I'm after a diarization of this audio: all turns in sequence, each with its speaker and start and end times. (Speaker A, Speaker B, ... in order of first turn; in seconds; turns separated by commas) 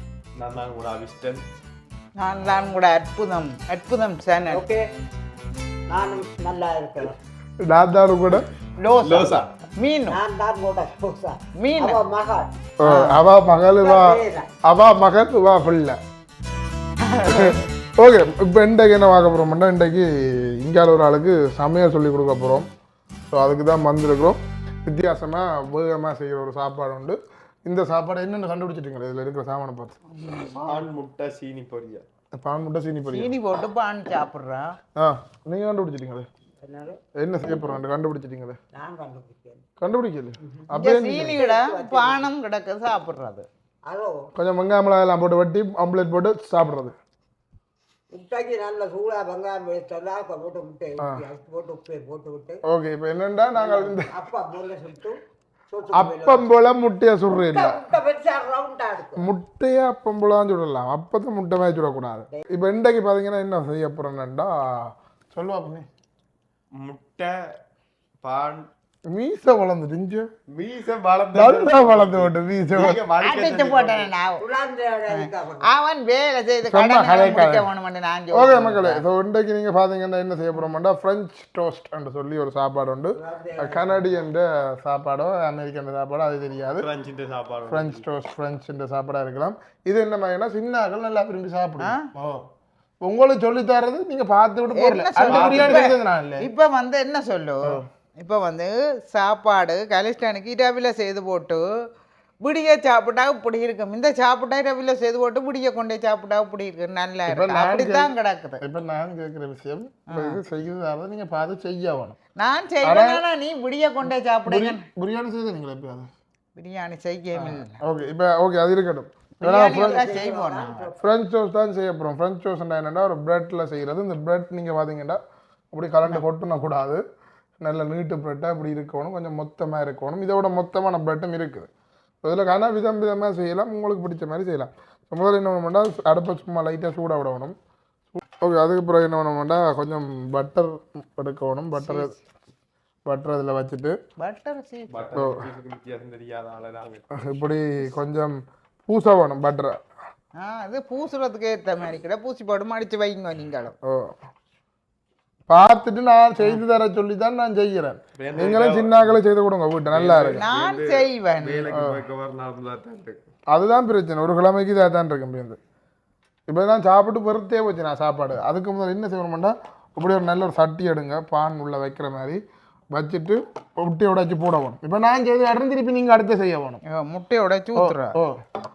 Speaker A: 0.4-1.4, Speaker B: 2.2-4.7, Speaker C: 4.5-4.8, Speaker C: 5.9-7.2, Speaker D: 7.7-8.4, Speaker B: 8.8-10.2, Speaker A: 9.0-9.5, Speaker C: 10.1-12.5, Speaker B: 11.6-12.0, Speaker D: 12.8-16.0, Speaker B: 12.8-13.2, Speaker C: 13.7-14.5, Speaker B: 17.0-17.6, Speaker D: 17.3-22.7, Speaker D: 23.3-29.9, Speaker B: 30.1-30.8, Speaker A: 30.6-32.0, Speaker D: 32.3-33.3, Speaker B: 33.1-34.8, Speaker D: 35.0-36.3, Speaker C: 36.6-37.0, Speaker D: 37.2-38.6, Speaker C: 38.7-39.6, Speaker D: 39.8-41.4, Speaker C: 40.4-40.7, Speaker B: 40.7-43.5, Speaker C: 41.3-42.3, Speaker C: 43.8-44.3, Speaker D: 44.3-47.0, Speaker C: 48.1-52.6, Speaker D: 52.7-54.1, Speaker C: 53.5-56.5, Speaker D: 55.9-57.9, Speaker C: 57.4-59.3, Speaker D: 59.2-65.9, Speaker A: 66.8-67.3, Speaker A: 68.2-68.7, Speaker D: 69.1-70.3, Speaker A: 70.5-74.1, Speaker D: 71.3-73.0, Speaker B: 73.2-74.4, Speaker C: 74.4-75.7, Speaker B: 75.1-79.1, Speaker D: 76.7-77.7, Speaker D: 78.3-86.9, Speaker C: 83.2-84.1, Speaker A: 86.8-88.0, Speaker D: 87.7-92.0, Speaker B: 91.8-92.1, Speaker A: 92.2-92.4, Speaker D: 93.0-96.5, Speaker B: 94.7-101.7, Speaker A: 95.2-95.9, Speaker B: 102.4-108.6, Speaker D: 107.3-112.2, Speaker B: 110.1-110.4, Speaker B: 112.4-114.8, Speaker D: 112.8-113.2, Speaker D: 114.5-116.1, Speaker B: 116.6-117.8, Speaker D: 117.3-120.1, Speaker B: 119.4-120.9, Speaker C: 119.7-121.1, Speaker D: 121.0-125.2, Speaker D: 125.7-127.0, Speaker D: 127.6-131.7, Speaker D: 132.2-137.5, Speaker D: 138.1-142.1, Speaker B: 141.8-142.2, Speaker D: 143.1-144.0, Speaker B: 144.2-145.3, Speaker A: 144.9-147.0, Speaker D: 145.1-145.4, Speaker D: 147.1-149.8, Speaker B: 150.3-153.8, Speaker D: 153.8-154.1, Speaker D: 155.5-160.4, Speaker A: 158.2-159.2, Speaker A: 159.9-163.2, Speaker B: 160.3-161.7, Speaker D: 161.7-162.0, Speaker D: 163.5-165.6, Speaker D: 166.5-172.4, Speaker D: 172.9-176.8, Speaker B: 176.9-178.1, Speaker D: 177.8-178.4